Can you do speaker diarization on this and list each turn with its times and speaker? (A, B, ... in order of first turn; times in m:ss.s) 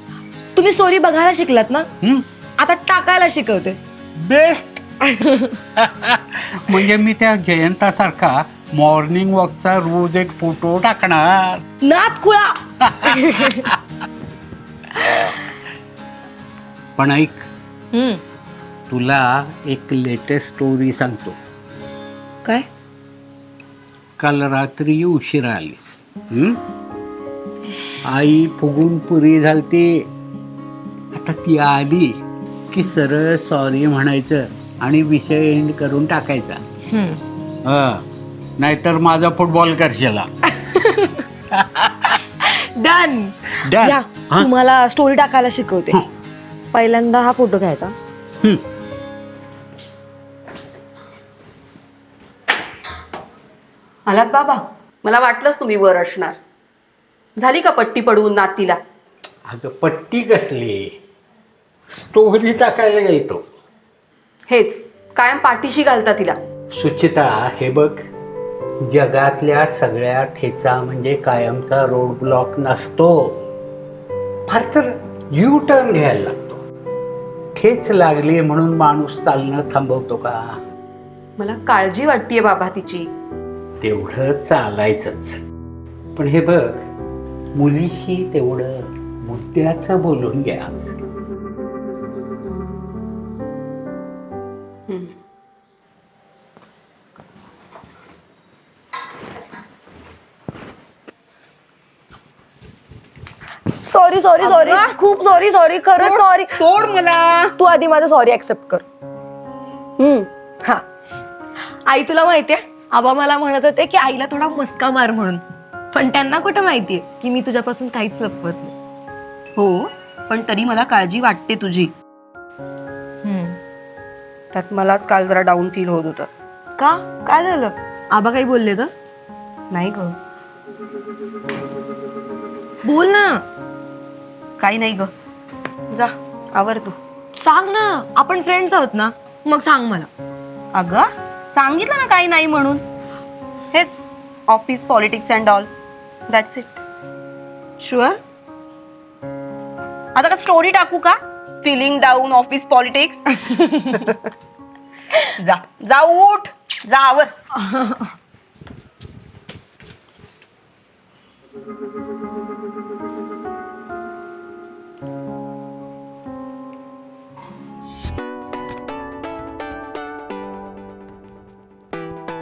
0:00.6-0:01.9 A
0:02.6-0:03.8 A
0:04.2-0:04.8 B
0:05.2-0:05.6 A
0:05.8-0:11.6 B
0:11.8-0:13.6 A
0:12.9-0:13.7 B
0:17.0-0:17.5 B
0:17.9-0:18.2 A
0:18.9-0:21.4 B
0:24.2-0:26.6 B
0:28.1-0:30.1 B
0:31.1-0:32.1 B
0:32.7-0:36.6 B
0:36.9-0:37.2 A
0:37.6-0:38.0 B
0:38.6-0:40.3 B
0:40.7-0:41.2 A
0:41.5-0:42.2 B
0:42.4-0:46.0 A
0:43.6-0:44.5 B
0:46.7-0:48.0 A
0:54.1-0:56.4 C
0:57.4-0:58.8 C
0:59.5-1:01.0 B
1:01.9-1:03.4 B
1:04.5-1:06.4 C
1:06.7-1:08.0 B
1:08.8-1:13.4 B
1:14.5-1:16.6 B
1:17.6-1:20.6 B
1:21.4-1:23.1 C
1:23.8-1:25.4 B
1:26.2-1:26.9 B
1:27.5-1:31.0 B
1:34.9-1:35.1 C
1:43.8-1:46.6 A
1:44.4-1:45.0 C
1:46.0-1:47.6 C
1:47.6-1:48.8 A
1:50.0-1:50.3 C
1:51.8-1:58.7 A
1:59.6-2:01.9 C
2:03.2-2:03.6 A
2:04.5-2:06.3 C
2:06.8-2:08.9 A
2:09.7-2:10.2 C
2:12.8-2:13.4 A
2:14.6-2:15.1 C
2:15.9-2:17.0 C
2:17.4-2:20.1 A
2:20.7-2:22.8 C
2:23.7-2:25.7 C
2:26.3-2:26.8 C
2:27.8-2:28.2 A
2:30.2-2:33.2 C
2:35.8-2:37.3 C
2:37.6-2:38.1 A